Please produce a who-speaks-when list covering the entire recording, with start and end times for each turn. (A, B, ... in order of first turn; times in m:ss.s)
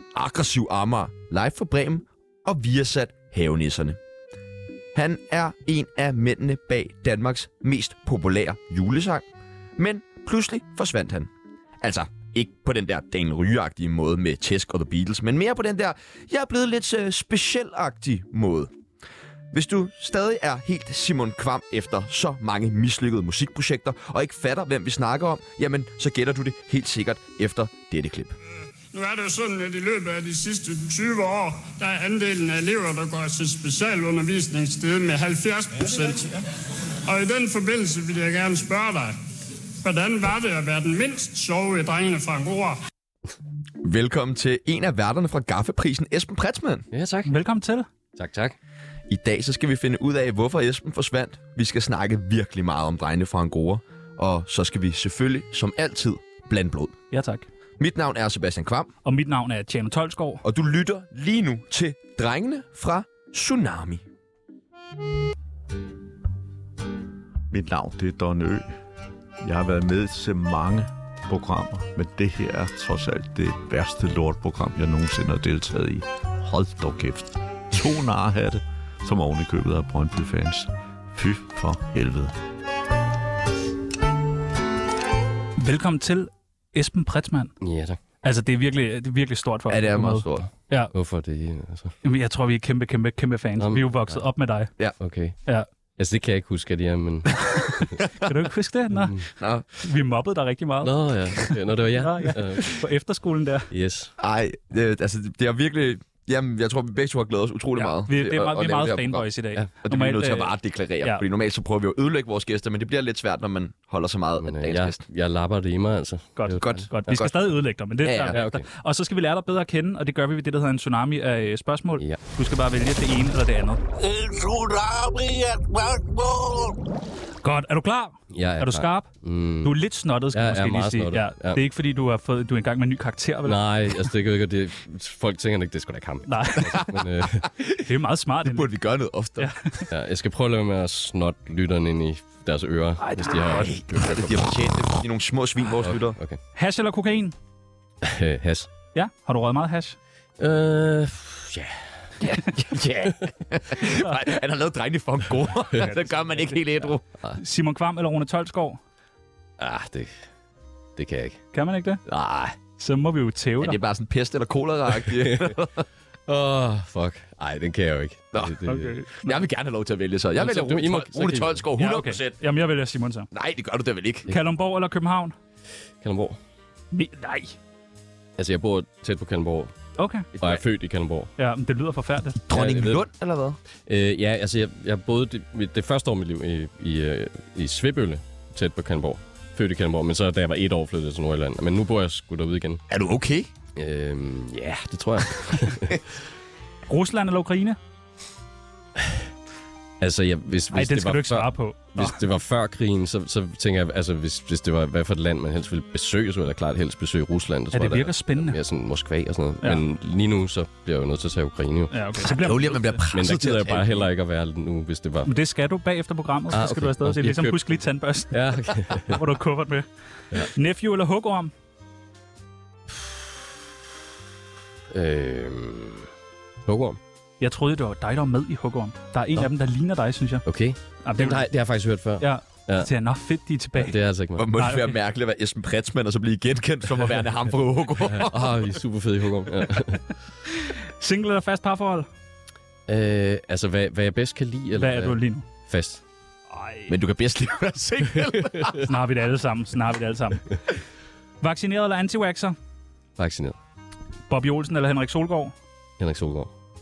0:00.1-0:04.0 A
0:04.9-0:09.2 A
0:09.8-0:11.3 A
0:11.8-0:18.7 A
0:19.5-0:28.4 A
0:28.9-0:36.4 B
0:37.1-0:39.2 B
0:39.8-0:42.8 B
0:43.8-0:46.9 A
0:46.9-0:47.3 C
0:47.2-0:47.9 D
0:48.2-0:48.6 C
0:49.1-0:57.0 A
0:57.1-0:57.5 D
0:57.8-0:58.9 A
0:59.0-1:00.4 D
1:00.4-1:04.0 A
1:07.5-1:08.7 E
1:09.4-1:22.4 E
1:25.6-1:27.5 D
1:27.6-1:28.0 C
1:28.2-1:30.9 D
1:29.7-1:30.5 A
1:30.9-1:31.9 C
1:32.0-1:34.7 D
1:33.6-1:34.2 C
1:35.0-1:35.4 C
1:36.0-1:38.0 C
1:37.6-1:39.2 D
1:38.9-1:39.2 C
1:39.4-1:39.6 A
1:39.7-1:43.7 D
1:40.8-1:42.8 C
1:43.7-1:44.1 C
1:44.2-1:49.2 A
1:47.8-1:50.5 D
1:49.8-1:55.0 A
1:54.4-1:56.9 C
1:56.4-2:03.8 D
1:56.6-1:57.3 A
1:58.0-1:58.4 A
1:58.3-1:58.7 C
2:04.1-2:06.4 A
2:07.4-2:09.1 D
2:08.3-2:09.8 C
2:09.6-2:13.6 D
2:10.3-2:11.6 C
2:13.4-2:17.5 C
2:16.3-2:16.9 D
2:17.8-2:18.7 D
2:18.4-2:19.5 A
2:19.4-2:19.9 D
2:19.9-2:24.4 C
2:23.4-2:26.2 A
2:25.8-2:26.4 C
2:26.6-2:27.4 D
2:28.0-2:28.7 C
2:28.9-2:30.0 D
2:30.4-2:31.8 C
2:32.2-2:37.0 A
2:33.8-2:34.2 D
2:35.7-2:36.6 D
2:37.4-2:38.8 D
2:39.6-2:40.1 C
2:41.0-2:41.4 C
2:41.5-2:42.0 D
2:42.1-2:42.6 C
2:42.8-2:43.8 D
2:43.6-2:45.8 A
2:44.9-2:45.6 C
2:46.3-2:49.0 C
2:48.6-2:49.4 D
2:49.2-2:52.4 A
2:50.4-2:51.6 C
2:51.8-2:53.3 D
2:53.3-2:54.3 A
2:54.3-2:55.4 D
2:56.0-2:56.4 C
2:56.9-2:57.6 D
2:58.4-2:59.7 C
3:00.0-3:00.3 D
3:00.4-3:01.3 C
3:01.4-3:02.4 D
3:02.5-3:03.6 A
3:02.5-3:03.0 C
3:03.9-3:12.8 C
3:12.9-3:13.5 A
3:13.8-3:16.2 C
3:16.9-3:17.8 D
3:20.0-3:32.0 C
3:20.7-3:22.2 D
3:27.7-3:28.6 D
3:31.9-3:33.0 D
3:32.2-3:34.1 A
3:33.1-3:35.3 C
3:35.2-3:41.5 D
3:36.5-3:39.2 C
3:42.9-3:43.2 C
3:44.9-3:46.1 C
3:46.7-3:47.0 C
3:47.4-3:50.4 D
3:50.4-3:52.9 C
3:51.0-3:51.5 D
3:52.2-3:54.0 D
3:53.8-3:54.5 C
3:54.4-3:58.5 A
3:54.6-3:55.0 D
3:58.1-4:00.0 C
4:00.5-4:02.1 D
4:02.9-4:06.0 C
4:04.8-4:05.4 D
4:06.5-4:06.9 D
4:06.9-4:08.8 A
4:08.8-4:10.4 D
4:11.4-4:12.6 D
4:13.2-4:13.6 C
4:14.3-4:15.5 D
4:16.0-4:16.5 C